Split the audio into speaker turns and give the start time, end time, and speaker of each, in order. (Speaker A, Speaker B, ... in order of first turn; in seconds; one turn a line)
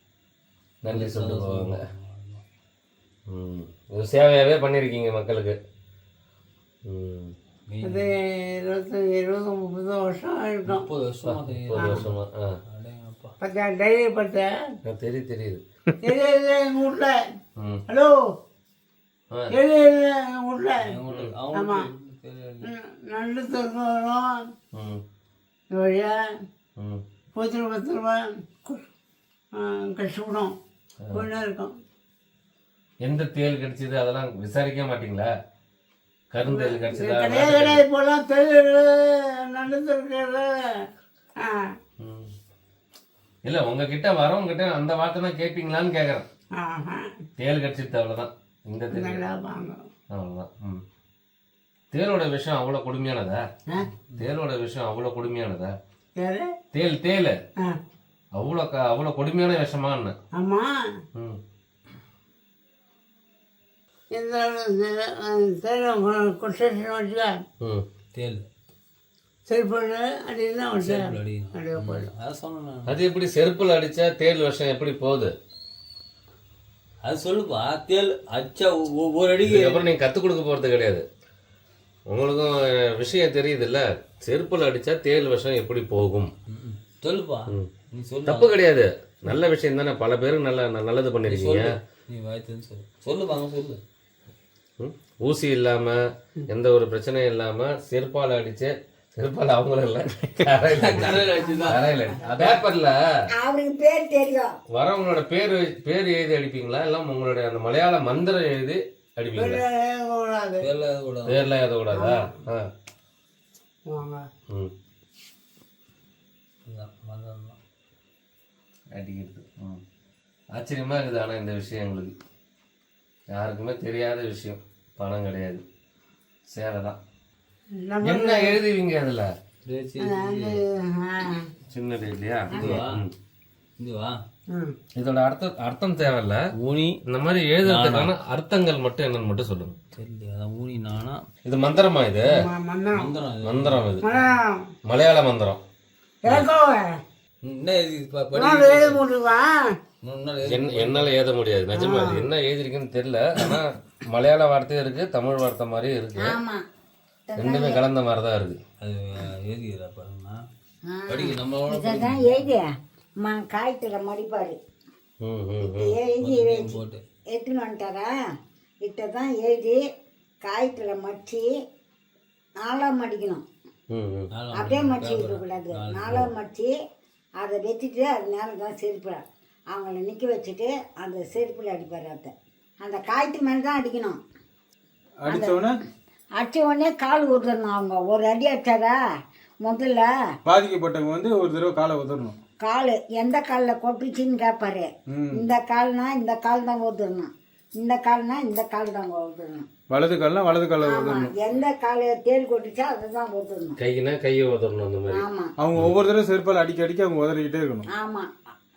Speaker A: 0.8-1.8
Speaker B: 0.9-2.4
Speaker A: 3.3-5.6
Speaker A: 6.9-7.3
Speaker B: 7.7-8.1
Speaker C: 7.8-10.9
Speaker B: 10.7-12.1
Speaker A: 11.2-12.5
Speaker B: 12.7-13.3
Speaker C: 13.4-14.5
Speaker A: 14.8-15.6
Speaker C: 16.0-17.2
Speaker A: 17.6-17.8
Speaker C: 17.9-18.2
Speaker C: 19.5-20.9
Speaker B: 20.8-22.7
Speaker C: 21.5-21.9
Speaker C: 22.6-24.5
Speaker A: 24.7-25.0
Speaker C: 25.7-26.2
Speaker C: 27.4-28.8
Speaker C: 29.6-30.5
Speaker C: 31.1-31.7
Speaker A: 33.0-35.3
Speaker A: 36.3-37.8
Speaker C: 36.5-40.8
Speaker C: 41.4-41.7
Speaker A: 42.0-42.3
Speaker A: 43.5-46.3
Speaker C: 46.6-47.1
Speaker A: 47.4-49.2
Speaker C: 48.9-49.8
Speaker A: 50.1-50.8
Speaker A: 51.9-53.4
Speaker A: 54.2-55.8
Speaker C: 56.2-56.5
Speaker A: 56.7-57.4
Speaker A: 58.4-60.1
Speaker C: 60.4-60.7
Speaker C: 64.1-67.4
Speaker B: 68.1-68.4
Speaker C: 69.5-72.1
Speaker B: 70.8-72.9
Speaker A: 72.9-75.3
Speaker B: 77.0-79.8
Speaker A: 79.5-81.0
Speaker A: 82.1-86.3
Speaker B: 86.5-88.5
Speaker A: 88.3-91.8
Speaker B: 91.3-93.8
Speaker A: 94.8-103.0
Speaker B: 100.7-101.8
Speaker D: 101.3-101.9
Speaker D: 103.4-104.5
Speaker A: 104.7-109.6
Speaker C: 109.4-110.7
Speaker B: 110.6-111.4
Speaker A: 111.3-112.7
Speaker C: 111.9-112.3
Speaker C: 113.9-114.2
Speaker B: 116.7-117.6
Speaker A: 119.0-119.8
Speaker A: 120.5-122.1
Speaker A: 123.3-125.6
Speaker A: 126.5-127.0
Speaker C: 127.8-128.6
Speaker A: 128.0-129.3
Speaker B: 129.6-130.6
Speaker C: 130.0-131.5
Speaker A: 131.7-133.1
Speaker C: 132.5-132.8
Speaker B: 132.5-133.0
Speaker B: 133.8-134.2
Speaker A: 135.0-136.4
Speaker B: 136.6-137.0
Speaker A: 137.1-139.8
Speaker B: 137.7-138.1
Speaker B: 139.9-141.2
Speaker A: 141.4-142.3
Speaker C: 142.3-143.1
Speaker B: 142.9-144.3
Speaker A: 143.4-144.0
Speaker C: 144.0-144.6
Speaker A: 144.9-145.6
Speaker C: 146.2-146.9
Speaker B: 147.4-149.0
Speaker C: 148.3-149.7
Speaker B: 150.0-151.2
Speaker A: 150.5-156.4
Speaker C: 151.8-152.3
Speaker D: 156.2-156.6
Speaker D: 157.3-157.8
Speaker A: 157.4-158.6
Speaker B: 158.8-160.4
Speaker D: 160.9-162.7
Speaker B: 161.1-162.5
Speaker D: 163.2-164.6
Speaker A: 165.2-165.9
Speaker D: 165.7-168.1
Speaker B: 166.2-167.0
Speaker D: 168.8-169.8
Speaker D: 170.4-171.5
Speaker D: 172.6-173.4
Speaker A: 173.9-174.3
Speaker B: 174.3-176.3
Speaker D: 174.5-176.7
Speaker D: 177.4-184.2
Speaker E: 185.2-185.8
Speaker D: 185.3-185.7
Speaker D: 186.4-189.0
Speaker D: 189.7-190.1
Speaker E: 190.4-192.4
Speaker D: 192.6-199.7
Speaker E: 195.1-195.4
Speaker E: 199.9-201.3
Speaker D: 200.8-203.8
Speaker A: 203.8-205.2
Speaker D: 205.1-205.5
Speaker E: 205.6-207.8
Speaker D: 207.9-208.3